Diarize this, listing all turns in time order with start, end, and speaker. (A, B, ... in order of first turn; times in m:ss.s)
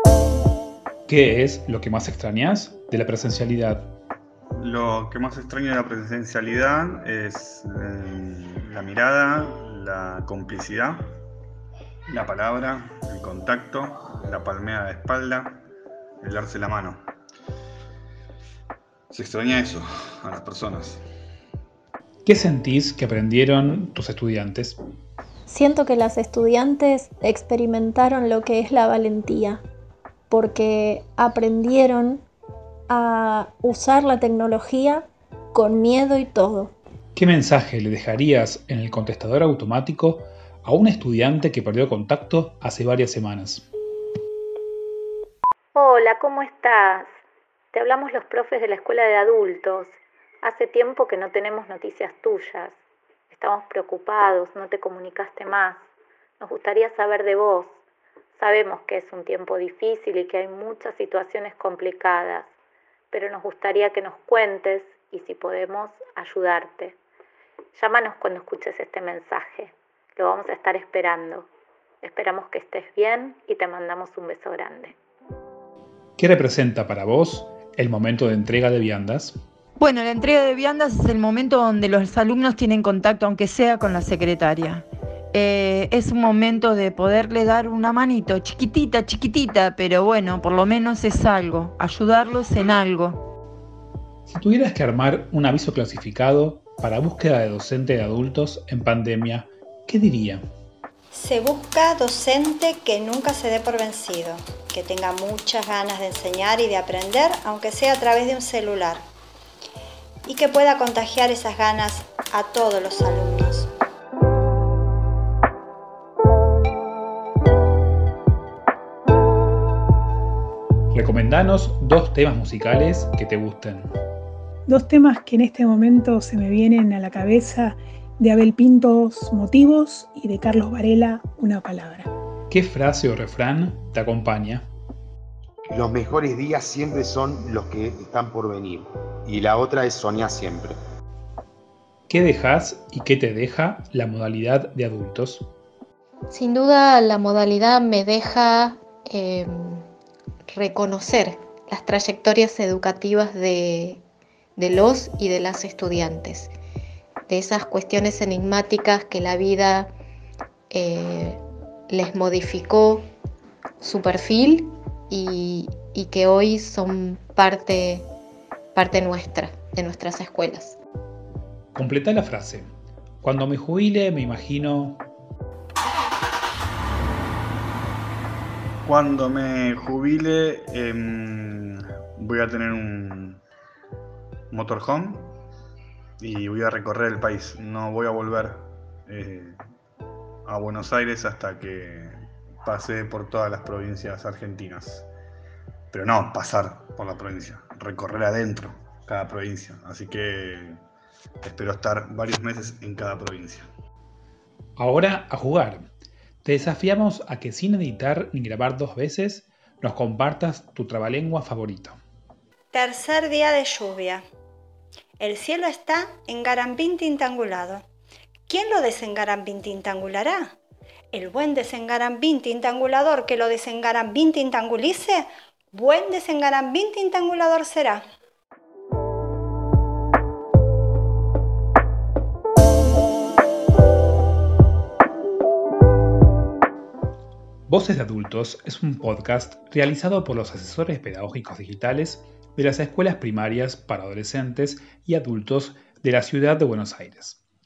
0:01.1-0:03.9 A
0:04.6-0:11.1 B
0:12.1-0:15.6 B
0:16.2-0:17.0 B
0:19.1-0:21.0 B
0:22.2-0:24.8 A
0:25.5-0:29.6 C
0:30.3-0:32.2 C
0:32.9-0:36.7 C
0:37.1-0:43.7 A
0:45.7-0:47.1 D
0:47.7-0:52.8 D
0:53.3-0:55.8 D
0:56.4-0:57.7 D
0:58.4-1:02.5 D
1:03.1-1:07.0 D
1:07.8-1:11.5 D
1:12.0-1:15.0 D
1:16.2-1:19.4 A
1:19.8-1:33.2 E
1:34.3-1:40.4 A
1:41.1-1:49.0 F
1:50.3-1:53.7 F
2:00.9-2:04.0 A
2:04.7-2:12.1 G
2:12.5-2:14.7 A
2:15.7-2:20.8 H
2:22.1-2:25.5 A
2:26.3-2:29.8 I
2:30.5-2:34.0 I
2:34.6-2:36.5 I
2:37.3-2:39.9 I
2:40.7-2:43.0 I
2:43.8-2:48.1 I
2:48.7-2:50.8 I
2:51.7-2:52.7 A
2:53.2-2:55.0 A
2:58.8-3:03.4 B
3:04.5-3:05.3 B
3:06.2-3:09.6 B
3:10.4-3:15.1 B
3:15.9-3:20.8 B
3:21.4-3:23.7 B
3:24.8-3:25.9 A
3:26.4-3:32.0 A
3:32.7-3:34.2 F
3:35.2-3:37.8 F
3:38.5-3:40.5 F
3:41.1-3:48.0 F
3:57.7-4:07.4 A